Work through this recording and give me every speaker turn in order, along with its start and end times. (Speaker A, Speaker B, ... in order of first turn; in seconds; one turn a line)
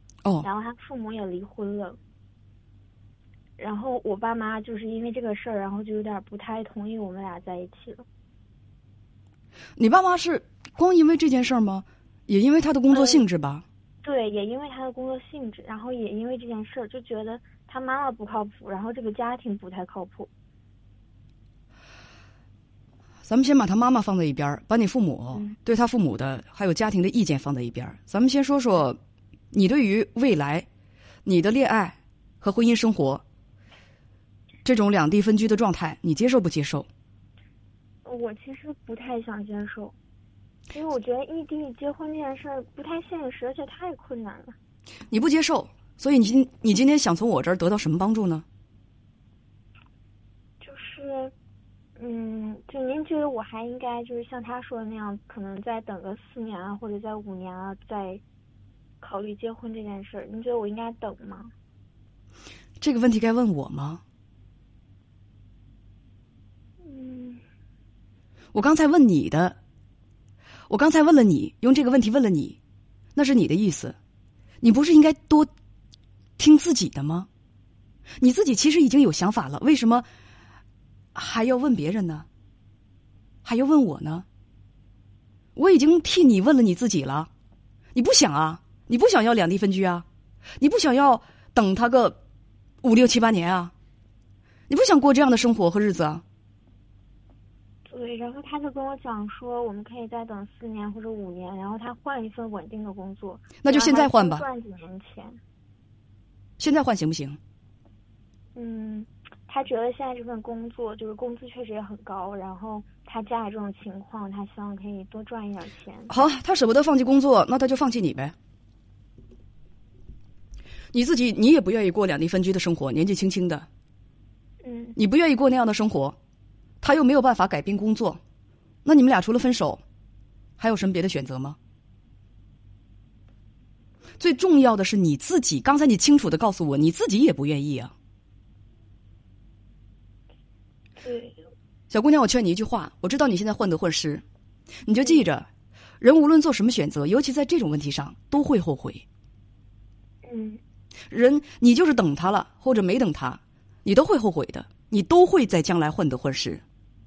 Speaker A: 0.4-2.0
Speaker A: 3.6-8.1
Speaker B: 9.8-13.6
Speaker A: 12.9-13.2
Speaker A: 14.0-20.3
Speaker B: 23.2-29.0
Speaker B: 29.5-30.7
Speaker B: 31.2-33.2
Speaker B: 34.6-36.9
Speaker A: 38.0-40.0
Speaker A: 40.7-44.6
Speaker B: 45.1-48.4
Speaker A: 50.6-51.3
Speaker A: 52.0-58.2
Speaker A: 59.0-61.5
Speaker B: 62.8-64.0
Speaker A: 66.8-67.4
Speaker B: 68.5-69.6
Speaker B: 70.7-72.6
Speaker B: 73.2-74.0
Speaker B: 74.6-75.5
Speaker B: 76.4-77.3
Speaker B: 78.2-80.1
Speaker B: 81.2-82.3
Speaker B: 83.5-84.3
Speaker B: 85.6-87.3
Speaker B: 88.0-90.0
Speaker B: 90.6-92.2
Speaker B: 92.8-93.7
Speaker B: 94.7-96.2
Speaker A: 97.9-105.4
Speaker B: 103.6-104.5
Speaker B: 106.6-107.4
Speaker A: 108.5-116.2
Speaker B: 116.1-118.3
Speaker B: 120.9-123.7
Speaker A: 124.6-125.0
Speaker B: 125.0-126.2
Speaker B: 126.8-128.2
Speaker B: 128.8-129.8
Speaker B: 130.6-131.6
Speaker B: 134.2-137.9
Speaker A: 141.0-141.4
Speaker B: 141.9-144.2
Speaker B: 144.9-145.5
Speaker B: 146.0-149.1
Speaker A: 150.2-150.6
Speaker B: 151.1-156.6